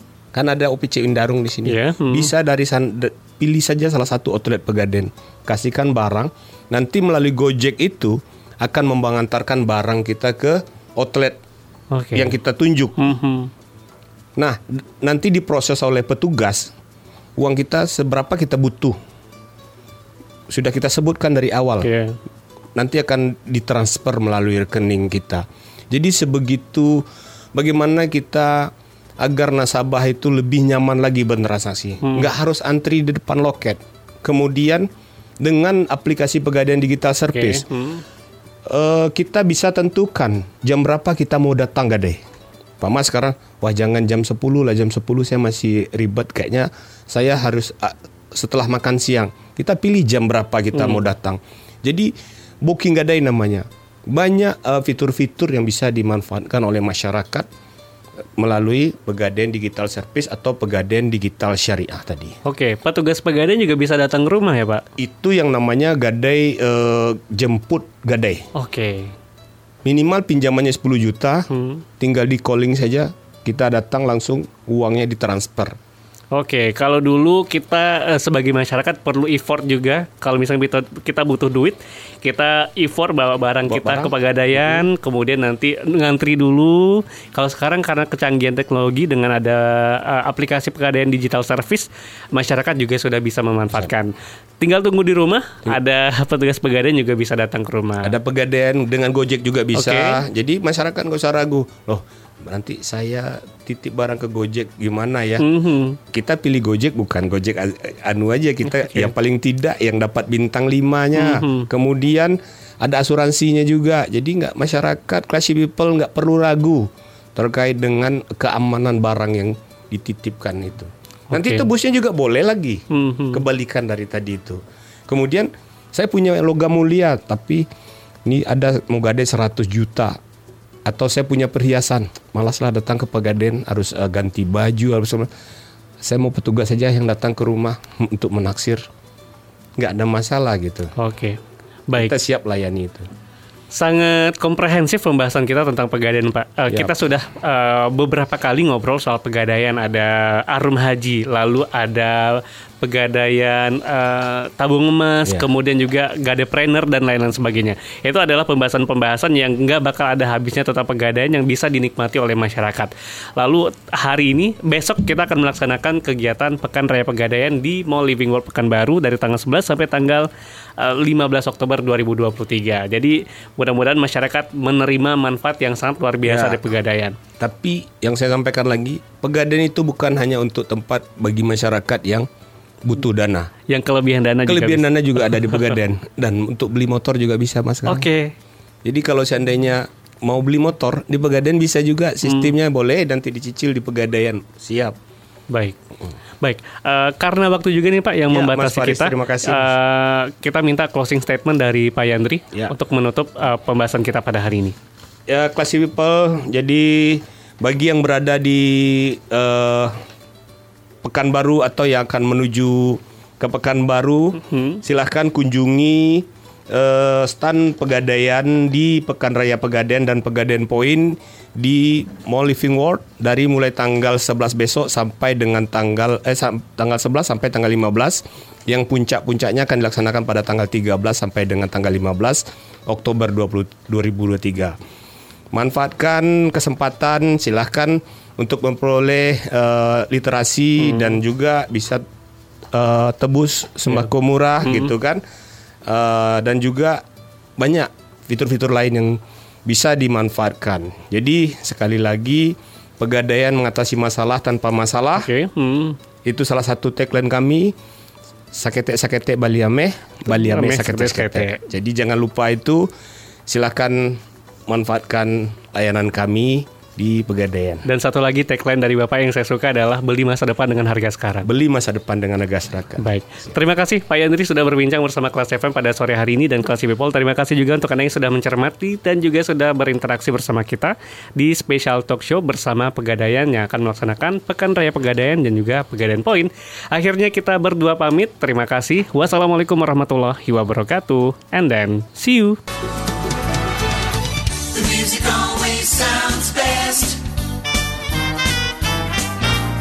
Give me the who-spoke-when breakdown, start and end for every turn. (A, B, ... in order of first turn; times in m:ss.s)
0:00.3-0:11.4 A
0:01.6-0:02.3 B
0:11.9-0:12.3 B
0:12.1-0:13.0 A
0:13.0-0:13.5 B
0:14.4-0:16.7 A
0:17.4-0:19.0 A
0:20.5-0:21.9 A
0:21.8-0:22.2 B
0:22.8-0:34.9 A
0:32.0-0:32.3 B
0:35.4-0:37.6 A
0:37.3-0:38.0 B
0:38.6-0:42.2 A
0:42.8-0:52.1 A
0:50.8-0:51.0 B
0:52.6-0:57.5 A
0:58.4-1:02.3 A
1:02.4-1:04.8 B
1:05.0-1:08.4 A
1:08.5-1:09.1 B
1:09.8-1:15.8 A
1:11.5-1:11.8 B
1:16.3-1:38.1 B
1:23.6-1:24.9 A
1:38.0-1:45.5 A
1:39.7-1:40.2 B
1:45.4-1:46.0 B
1:46.1-2:07.6 A
1:48.7-1:49.1 B
1:51.2-1:51.7 B
2:01.3-2:01.7 B
2:02.9-2:03.4 B
2:08.2-2:10.2 A
2:10.9-2:15.3 A
2:16.0-2:18.8 A
2:19.8-2:20.9 A
2:21.0-2:22.2 B
2:21.9-2:23.1 A
2:23.7-2:57.2 B
2:26.7-2:26.9 A
2:56.2-2:56.6 A
2:57.4-3:02.3 A
3:02.8-3:03.5 A
3:03.7-3:05.7 B
3:04.4-3:08.1 A
3:07.9-3:08.3 B
3:08.8-3:15.0 A
3:12.2-3:12.5 B
3:15.5-3:15.8 B
3:16.4-3:24.7 B
3:18.3-3:19.7 A
3:25.3-3:29.9 A
3:31.0-3:54.8 A
3:34.4-3:34.8 B
3:55.5-4:02.0 A
4:00.8-4:01.2 B
4:02.7-4:05.2 A
4:04.6-4:04.9 B
4:05.9-4:07.0 A
4:07.6-4:15.3 A
4:15.2-4:16.0 B
4:16.2-4:17.7 A
4:18.5-4:22.9 A
4:20.3-4:21.6 B
4:23.5-4:27.9 A
4:27.9-4:31.5 B
4:31.4-4:33.0 A
4:33.0-4:52.6 B
4:55.2-4:57.1 B